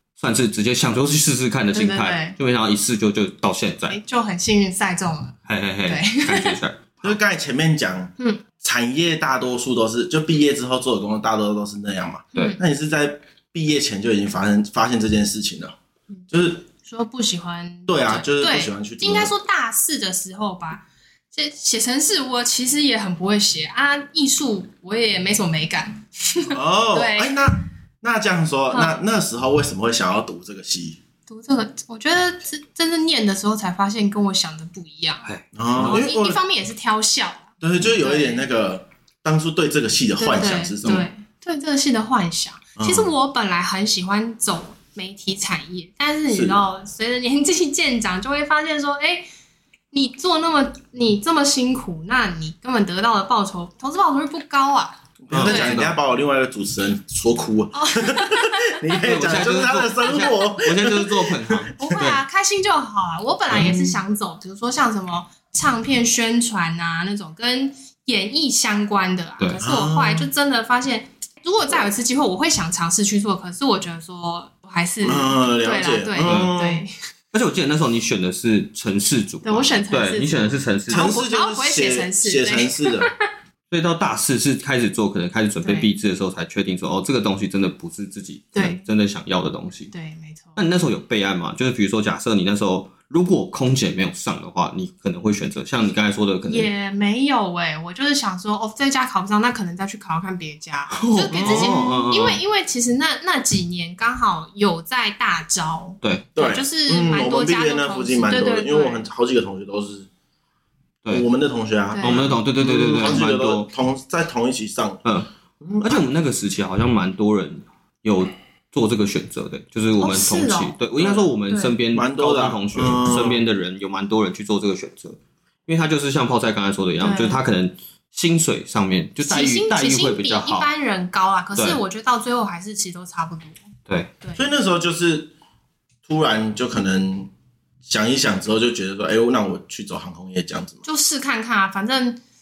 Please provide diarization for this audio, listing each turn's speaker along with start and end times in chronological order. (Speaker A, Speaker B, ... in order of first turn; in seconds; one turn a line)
Speaker A: 0.2-4.0
Speaker B: 1.7-2.4
Speaker B: 3.9-6.6
Speaker A: 5.5-7.2
Speaker C: 7.0-15.7
Speaker B: 8.2-8.4
Speaker B: 12.3-12.6
Speaker C: 16.3-16.6
Speaker B: 16.8-27.5
Speaker C: 17.9-19.3
Speaker C: 26.5-31.0
Speaker B: 31.3-35.3
Speaker A: 35.2-36.1
Speaker C: 35.5-36.4
Speaker B: 35.8-38.5
Speaker C: 37.6-41.1
Speaker B: 40.2-49.2
Speaker C: 42.8-43.1
Speaker C: 46.3-46.6
Speaker B: 49.9-55.8
Speaker C: 55.2-61.9
Speaker A: 55.3-55.9
Speaker B: 57.7-58.9
Speaker A: 59.0-62.2
Speaker B: 60.0-60.4
Speaker B: 61.7-76.9
Speaker C: 63.5-64.0
Speaker C: 69.6-70.3
Speaker C: 75.0-76.8
Speaker A: 76.2-76.5
Speaker A: 77.3-81.1
Speaker B: 79.4-83.2
Speaker C: 80.9-83.1
Speaker A: 83.7-89.9
Speaker B: 85.6-85.9
Speaker B: 88.5-88.8
Speaker B: 89.9-90.6
Speaker A: 90.5-96.7
Speaker B: 96.5-109.1
Speaker A: 100.9-102.4
Speaker C: 101.3-101.9
Speaker C: 106.3-110.1
Speaker C: 111.1-115.0
Speaker B: 111.9-112.3
Speaker A: 112.0-113.7
Speaker C: 115.6-116.0
Speaker A: 115.8-130.7
Speaker B: 120.0-120.8
Speaker C: 121.0-121.3
Speaker B: 121.5-121.7
Speaker C: 121.9-123.4
Speaker B: 127.0-127.4
Speaker B: 129.2-133.6
Speaker A: 133.9-134.1
Speaker C: 134.4-135.3
Speaker C: 136.1-137.3
Speaker C: 137.8-140.8
Speaker B: 140.8-142.2